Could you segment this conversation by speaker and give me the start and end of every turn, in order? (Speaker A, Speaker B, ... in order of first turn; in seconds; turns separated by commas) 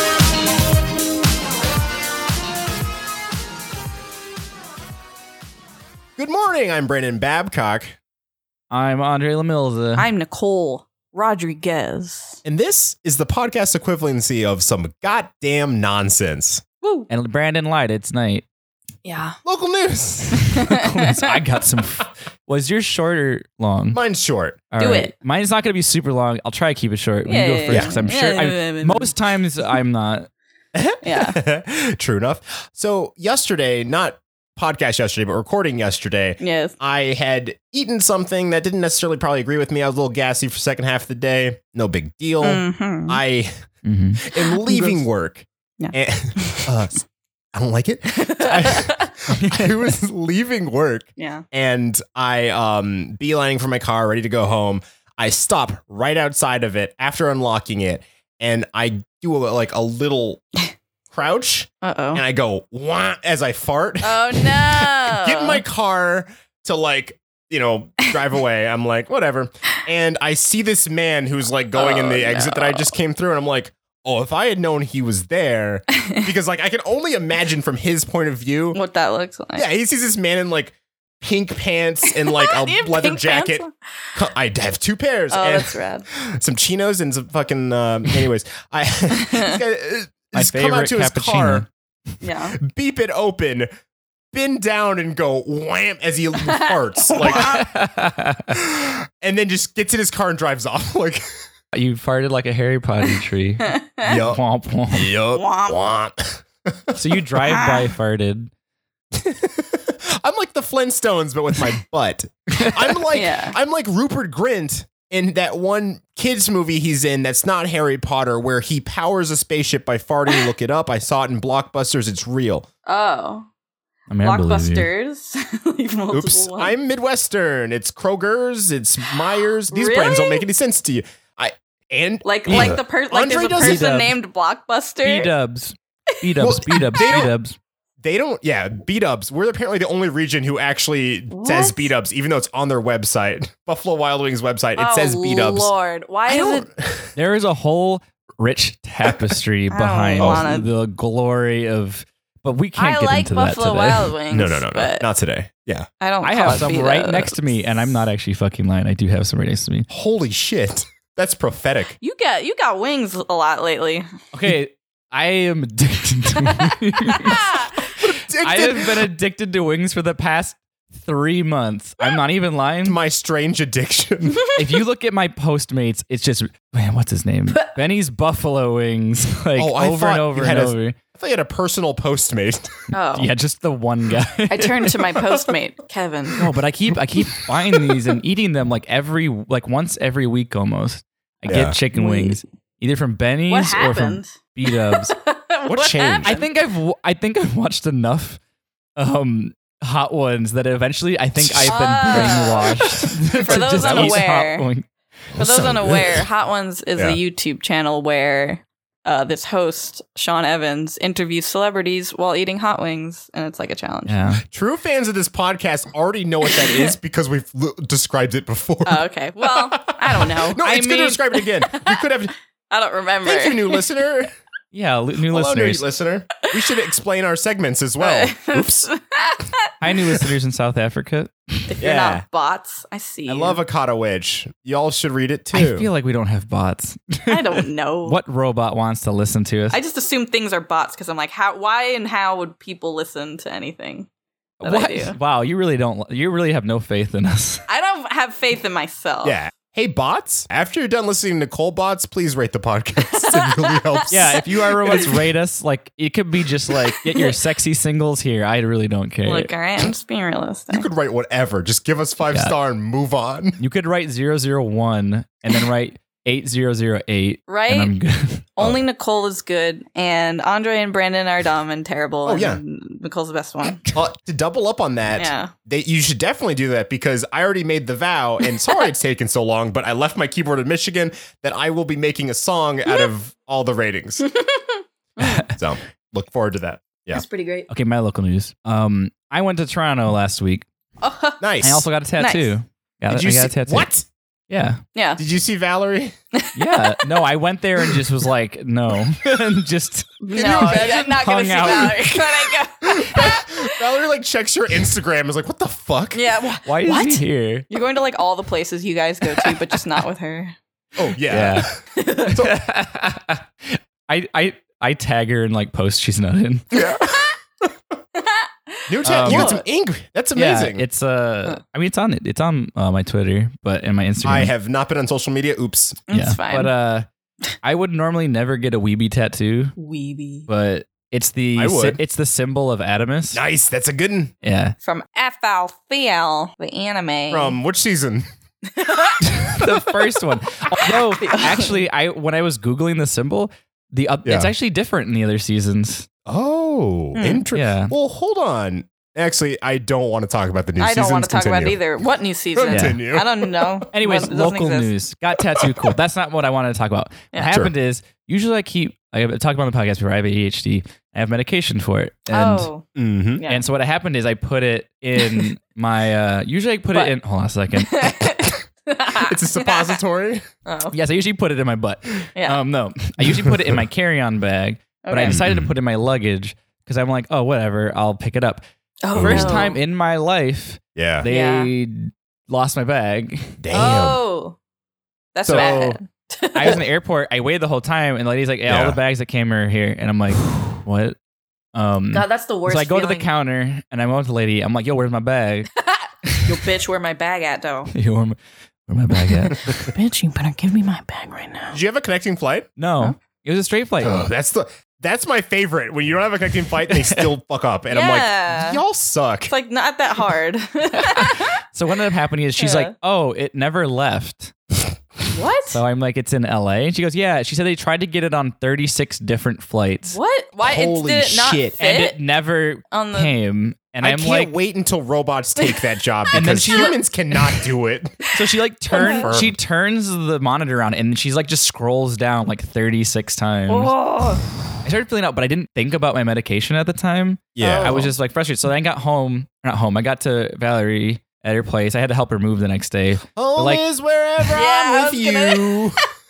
Speaker A: 6.2-7.9, Speaker B: 8.7-10.1, Speaker C: 10.0-12.4, Speaker A: 12.4-16.6, Speaker C: 16.8-17.1, Speaker B: 17.1-18.4, Speaker C: 19.0-19.4, Speaker A: 19.4-20.8, Speaker C: 20.5-21.2, Speaker B: 20.7-24.0, Speaker A: 23.9-24.6, Speaker B: 24.7-30.3, Speaker C: 24.8-25.1, Speaker C: 27.2-29.1, Speaker A: 27.7-27.9, Speaker A: 30.7-43.6, Speaker C: 31.0-31.4, Speaker C: 36.4-36.7, Speaker C: 42.4-43.2, Speaker B: 43.8-44.2, Speaker A: 44.2-60.4, Speaker C: 45.8-46.7, Speaker C: 48.2-49.1, Speaker B: 49.3-49.7, Speaker C: 51.2-51.4, Speaker A: 61.1-78.8, Speaker C: 61.8-62.2, Speaker C: 64.0-65.6, Speaker C: 71.7-72.8, Speaker C: 78.7-79.7, Speaker A: 79.5-91.6, Speaker C: 82.3-83.7, Speaker C: 85.3-86.1, Speaker B: 90.3-91.7, Speaker C: 92.2-92.6, Speaker A: 92.6-93.7, Speaker A: 94.3-97.7, Speaker C: 96.5-97.6, Speaker B: 97.3-98.6, Speaker A: 98.5-101.2, Speaker B: 101.7-105.1, Speaker C: 103.7-104.1, Speaker A: 104.0-104.4, Speaker A: 104.9-107.0, Speaker C: 105.3-105.8, Speaker B: 106.9-108.5, Speaker C: 107.5-107.8, Speaker A: 109.1-122.7, Speaker C: 113.1-113.6, Speaker C: 122.8-123.5, Speaker B: 124.1-124.9, Speaker C: 124.2-126.7, Speaker A: 126.1-133.8, Speaker C: 129.7-130.4, Speaker C: 132.2-135.3, Speaker B: 132.5-132.8, Speaker B: 133.5-134.2, Speaker B: 135.0-137.6, Speaker A: 136.4-137.3, Speaker C: 136.7-137.1, Speaker A: 138.0-145.7, Speaker C: 141.3-141.9, Speaker C: 144.8-146.7, Speaker A: 146.3-147.1, Speaker B: 147.2-154.1, Speaker C: 149.7-150.7, Speaker A: 150.2-150.6, Speaker C: 152.8-155.1, Speaker A: 154.3-155.9, Speaker C: 156.0-157.4, Speaker B: 156.2-159.9, Speaker A: 159.9-161.9, Speaker C: 162.0-164.1, Speaker B: 164.3-173.0, Speaker C: 166.5-167.7, Speaker A: 168.0-169.0, Speaker A: 172.8-174.4, Speaker B: 174.5-180.9, Speaker A: 179.6-182.8, Speaker C: 182.9-183.3, Speaker B: 183.1-185.5, Speaker C: 184.5-186.5, Speaker B: 186.3-195.2, Speaker A: 191.5-191.8, Speaker C: 191.9-192.4, Speaker C: 193.5-196.5, Speaker A: 195.6-196.4, Speaker B: 196.2-198.4, Speaker B: 199.0-204.9, Speaker A: 201.4-202.4, Speaker C: 201.7-204.7, Speaker A: 203.4-204.2, Speaker A: 205.3-206.2, Speaker C: 205.4-214.2, Speaker B: 214.1-214.4, Speaker A: 214.5-222.3, Speaker C: 218.8-220.6, Speaker B: 220.6-221.4, Speaker C: 221.6-222.0, Speaker C: 222.7-223.8, Speaker A: 223.2-224.3, Speaker B: 224.7-225.8, Speaker A: 225.3-228.8, Speaker C: 228.0-229.9, Speaker B: 229.8-231.7, Speaker C: 231.7-233.6, Speaker A: 231.8-232.2, Speaker A: 233.3-235.9, Speaker B: 235.5-239.8, Speaker C: 237.3-238.2, Speaker C: 239.7-244.1, Speaker B: 244.6-247.6, Speaker C: 244.6-245.2, Speaker C: 247.7-249.3, Speaker A: 249.2-255.1, Speaker C: 253.2-255.2, Speaker B: 254.1-259.5, Speaker C: 256.9-257.4, Speaker C: 259.2-260.9, Speaker A: 260.7-263.6, Speaker B: 262.3-262.5, Speaker B: 263.6-268.5, Speaker C: 267.5-267.9, Speaker C: 268.6-273.8, Speaker A: 272.2-272.6, Speaker A: 273.9-284.2, Speaker C: 275.1-275.5, Speaker C: 284.3-285.5, Speaker B: 285.2-285.5, Speaker A: 285.5-287.2, Speaker C: 287.1-287.7, Speaker B: 287.7-290.6, Speaker C: 291.0-291.4, Speaker A: 291.4-291.9, Speaker B: 291.6-293.9, Speaker C: 292.2-292.5, Speaker A: 293.1-294.1, Speaker B: 294.5-294.8, Speaker C: 294.9-295.2, Speaker A: 295.2-296.1, Speaker C: 296.3-296.8, Speaker B: 296.5-302.5, Speaker C: 300.2-303.7, Speaker A: 300.4-300.9, Speaker A: 302.8-306.2, Speaker C: 306.1-310.6, Speaker B: 306.6-307.7, Speaker A: 311.0-312.6, Speaker B: 311.3-311.7, Speaker C: 311.9-312.4, Speaker B: 312.2-316.6, Speaker A: 316.8-317.3, Speaker C: 316.8-317.2, Speaker C: 318.2-319.6, Speaker A: 318.9-320.8, Speaker B: 319.0-319.5, Speaker B: 320.3-324.5, Speaker A: 324.2-326.0, Speaker C: 326.1-326.7, Speaker B: 326.1-327.1, Speaker B: 327.6-329.7, Speaker C: 329.8-330.5, Speaker B: 330.5-333.4, Speaker A: 331.6-332.0, Speaker A: 333.3-334.3, Speaker B: 334.4-334.7, Speaker C: 334.8-337.6, Speaker A: 337.3-338.2, Speaker C: 338.7-339.2, Speaker B: 339.2-346.1, Speaker C: 341.1-341.7, Speaker A: 344.2-344.5, Speaker A: 346.2-351.8, Speaker C: 347.1-347.4, Speaker B: 347.5-347.9, Speaker C: 350.8-354.9, Speaker A: 352.5-353.9, Speaker B: 352.7-353.0, Speaker B: 353.9-362.7, Speaker C: 362.3-362.8, Speaker A: 362.9-363.4, Speaker C: 363.4-363.6, Speaker B: 363.4-368.1, Speaker C: 367.7-370.0, Speaker A: 369.1-370.4, Speaker C: 370.6-370.9, Speaker B: 370.9-378.6, Speaker A: 373.2-373.8, Speaker C: 375.0-375.4, Speaker A: 375.2-375.7, Speaker C: 379.0-379.8, Speaker A: 379.1-379.7, Speaker B: 379.1-383.6, Speaker A: 380.9-381.2, Speaker C: 381.3-381.7, Speaker A: 383.6-384.2, Speaker C: 383.7-384.6, Speaker C: 385.3-386.8, Speaker B: 385.4-386.0, Speaker A: 385.4-385.7, Speaker B: 386.5-391.1, Speaker A: 388.7-389.0, Speaker B: 391.7-395.7, Speaker C: 392.1-393.3, Speaker C: 395.8-397.9, Speaker B: 396.2-396.5, Speaker B: 397.9-398.4, Speaker B: 398.9-399.9, Speaker C: 399.8-401.8, Speaker A: 401.7-402.7, Speaker B: 402.8-404.3, Speaker A: 404.0-409.5, Speaker C: 407.9-408.8, Speaker C: 409.5-411.6, Speaker B: 410.9-414.5, Speaker C: 412.6-412.9, Speaker C: 415.3-415.8, Speaker B: 415.7-420.2, Speaker C: 420.1-422.2, Speaker A: 420.6-421.8, Speaker B: 421.8-424.5, Speaker C: 422.9-423.3, Speaker A: 424.0-428.3, Speaker B: 426.3-427.0, Speaker B: 428.3-433.9, Speaker A: 428.9-429.6, Speaker C: 428.9-429.3, Speaker C: 433.7-434.4, Speaker B: 434.8-443.9, Speaker A: 437.6-438.1, Speaker C: 437.6-438.0, Speaker A: 443.4-446.0, Speaker C: 444.5-445.9